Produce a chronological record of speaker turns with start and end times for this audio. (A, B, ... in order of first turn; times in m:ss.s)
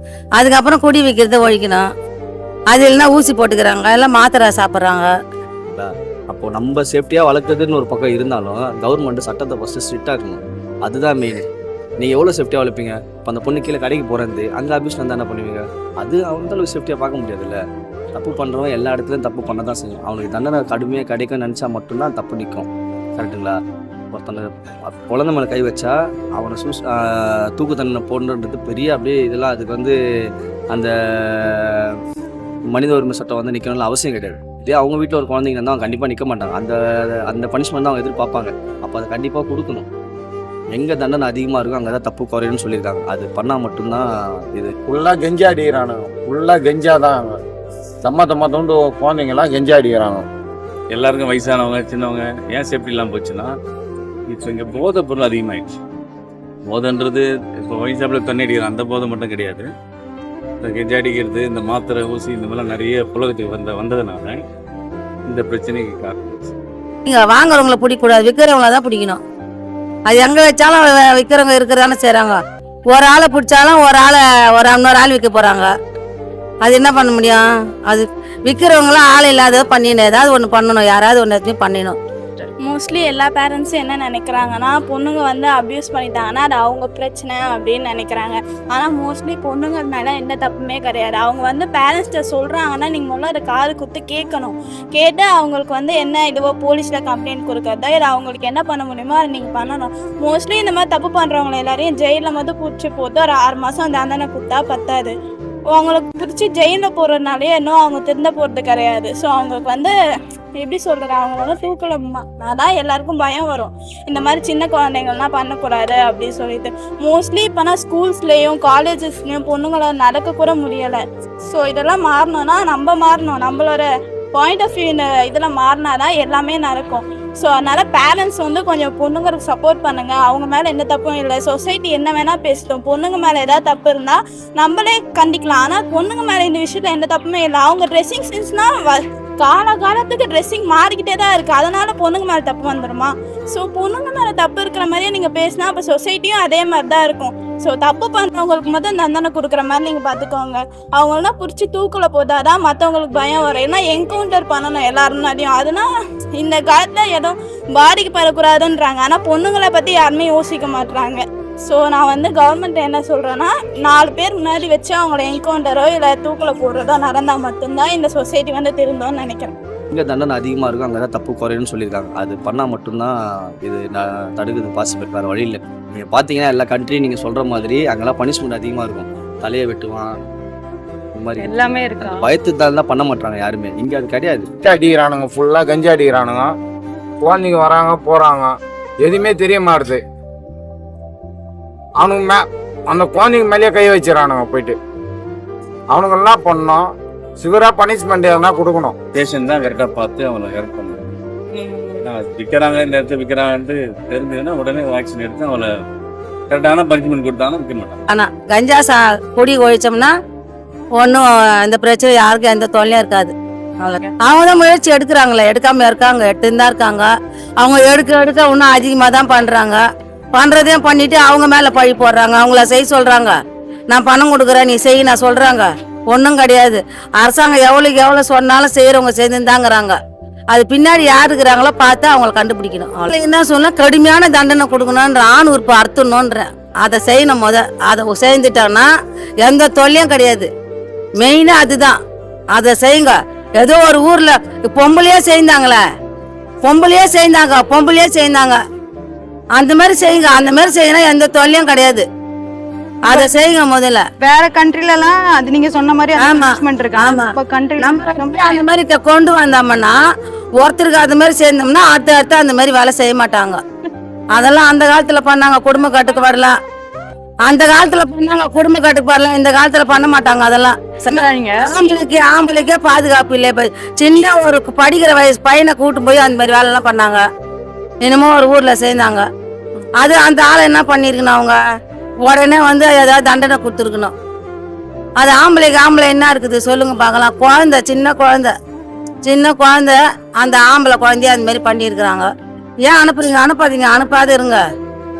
0:00.4-0:01.8 A
0:02.7-0:05.1 A
0:05.7-0:11.4 B
0:12.0-0:17.6 B
0:18.1-0:23.6 B
0:24.1-0:32.0 B
0:32.7-0:39.8 B
0:40.7-0:44.7 B
0:44.8-0:47.4 C
0:48.0-0:50.2 C
0:50.9-0:53.5 D
0:54.3-0:55.8 D
0:56.7-0:59.7 D
1:00.6-1:04.4 D
1:05.3-1:06.5 D
1:07.0-1:09.2 A
1:10.1-1:12.4 A
1:12.9-1:15.7 A
1:16.6-1:22.0 A
1:22.6-1:45.1 E
1:45.7-1:49.9 E
1:50.6-2:35.9 E
2:36.4-2:49.5 E
2:49.9-3:00.1 B
3:01.1-3:04.5 B
3:01.4-3:02.3 F
3:04.6-3:06.5 C
3:07.2-3:10.0 C
3:12.0-3:14.8 C
3:15.9-3:19.0 C
3:19.1-3:21.1 D
3:22.0-3:25.7 D
3:26.5-3:28.0 D
3:28.1-3:30.1 A
3:31.0-3:37.1 A
3:37.6-3:39.8 A
3:40.3-3:43.3 A
3:43.9-3:50.0 A
3:50.5-3:58.9 A
3:59.4-4:00.5 A
4:01.2-4:02.0 A
4:02.5-4:05.8 A
4:06.6-4:08.6 A
4:09.6-4:12.0 A
4:13.1-4:14.0 A
4:14.2-4:18.6 F
4:16.2-4:20.0 A
4:20.6-4:23.6 A
4:24.3-4:26.6 A
4:27.4-4:37.2 A
4:31.2-4:31.6 F
4:38.0-4:39.2 A
4:40.0-4:41.6 A
4:42.2-4:44.1 A
4:45.2-4:48.5 A
4:49.2-4:52.3 A
4:52.9-4:54.6 A